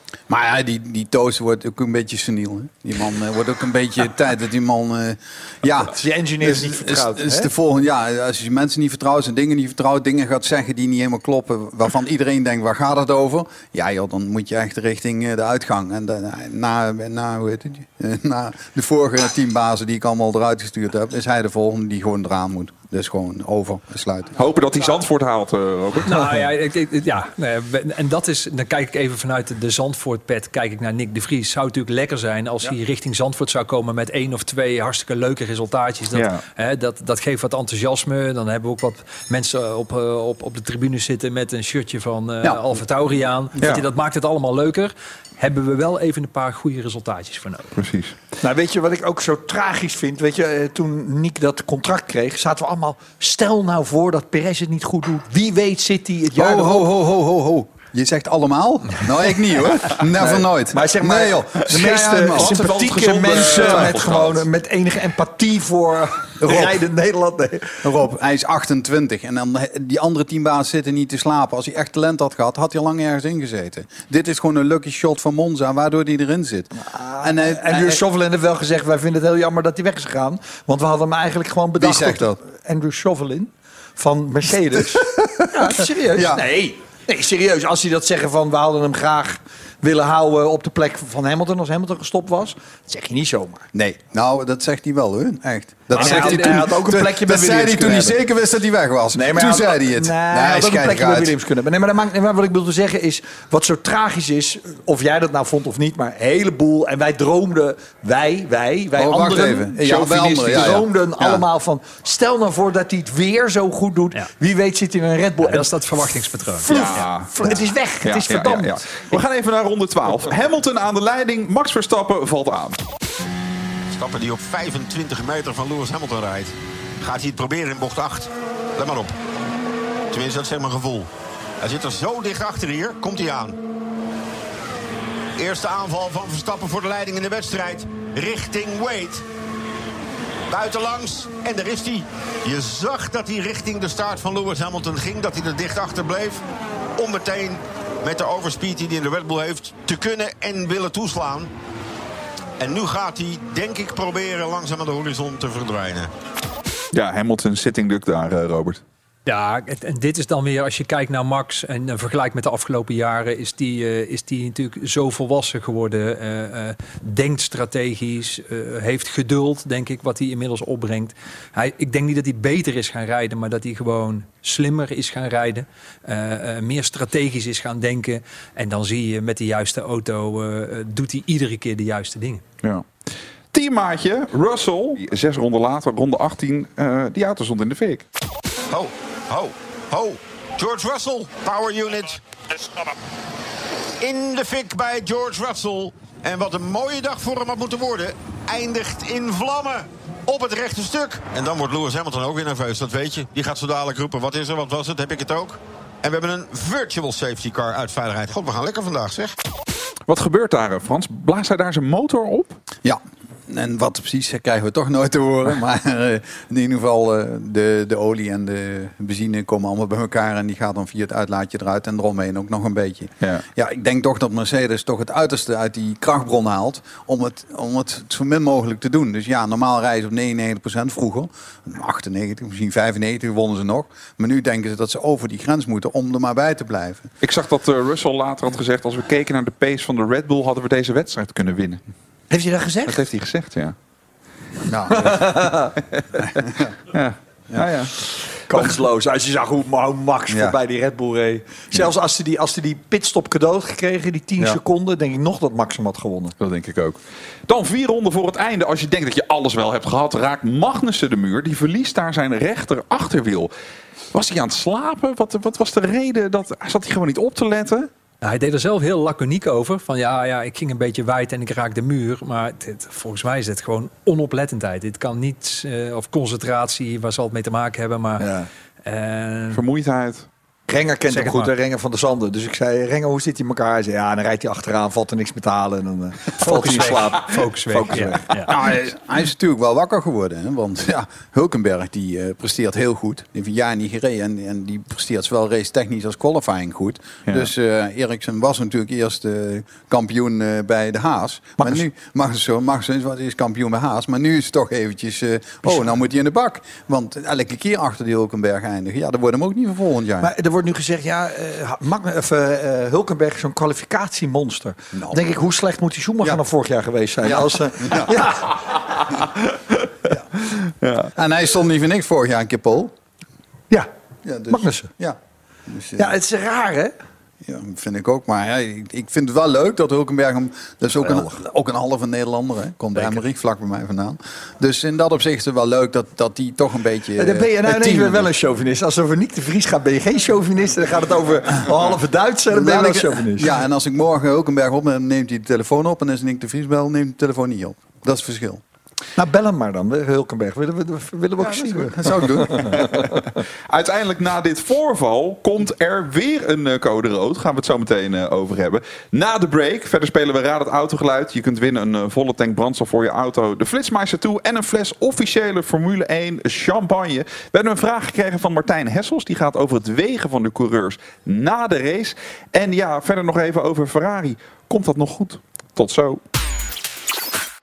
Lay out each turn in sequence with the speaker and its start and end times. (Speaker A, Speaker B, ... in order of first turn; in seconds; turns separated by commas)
Speaker A: 0.3-24.4, Speaker B: 5.9-7.5, Speaker C: 24.4-26.4, Speaker D: 26.1-47.7, Speaker C: 36.1-36.4, Speaker C: 47.8-48.2, Speaker B: 48.4-56.9, Speaker A: 56.4-62.6, Speaker B: 60.2-67.9, Speaker C: 62.3-64.5, Speaker A: 63.3-64.0, Speaker A: 66.4-66.8, Speaker A: 67.8-78.0, Speaker B: 76.8-93.7, Speaker A: 81.8-82.4, Speaker A: 85.2-86.5, Speaker A: 93.7-101.3, Speaker B: 95.9-98.2, Speaker D: 96.0-96.6, Speaker B: 99.1-118.8, Speaker A: 109.0-111.4, Speaker D: 115.4-116.7, Speaker C: 116.7-122.8, Speaker E: 123.9-129.1, Speaker E: 130.1-131.1, Speaker E: 131.6-133.6, Speaker E: 135.4-139.2, Speaker E: 140.5-146.4, Speaker E: 147.0-151.5, Speaker E: 152.6-156.1, Speaker C: 156.9-158.8, Speaker D: 159.3-182.4, Speaker C: 182.6-182.9, Speaker C: 183.5-188.0, Speaker E: 188.7-192.2, Speaker E: 194.0-209.3, Speaker C: 210.1-212.6, Speaker A: 212.8-237.1, Speaker C: 237.2-241.8, Speaker B: 242.3-243.0, Speaker C: 242.9-243.8, Speaker A: 244.7-245.3, Speaker B: 244.9-245.7, Speaker A: 246.4-246.7, Speaker C: 246.9-247.9, Speaker B: 248.5-256.3, Speaker A: 250.3-250.6, Speaker C: 256.4-263.5, Speaker C: 264.1-267.9, Speaker D: 268.2-278.3, Speaker B: 278.2-278.5, Speaker D: 278.9-279.6, Speaker C: 279.5-280.3, Speaker B: 280.7-288.5, Speaker D: 281.1-281.5, Speaker D: 286.4-288.6, Speaker A: 288.5-310.3, Speaker B: 310.2-318.6, Speaker A: 314.9-315.2, Speaker A: 317.2-318.3, Speaker C: 320.8-321.1, Speaker A: 321.1-322.9, Speaker A: 324.2-326.1, Speaker B: 324.5-324.9, Speaker B: 326.0-326.9, Speaker A: 327.4-338.3, Speaker B: 331.0-331.4, Speaker B: 337.2-343.5, Speaker A: 342.5-348.6, Speaker B: 349.2-353.0, Speaker A: 351.4-352.9, Speaker C: 352.8-353.1, Speaker C: 353.7-376.2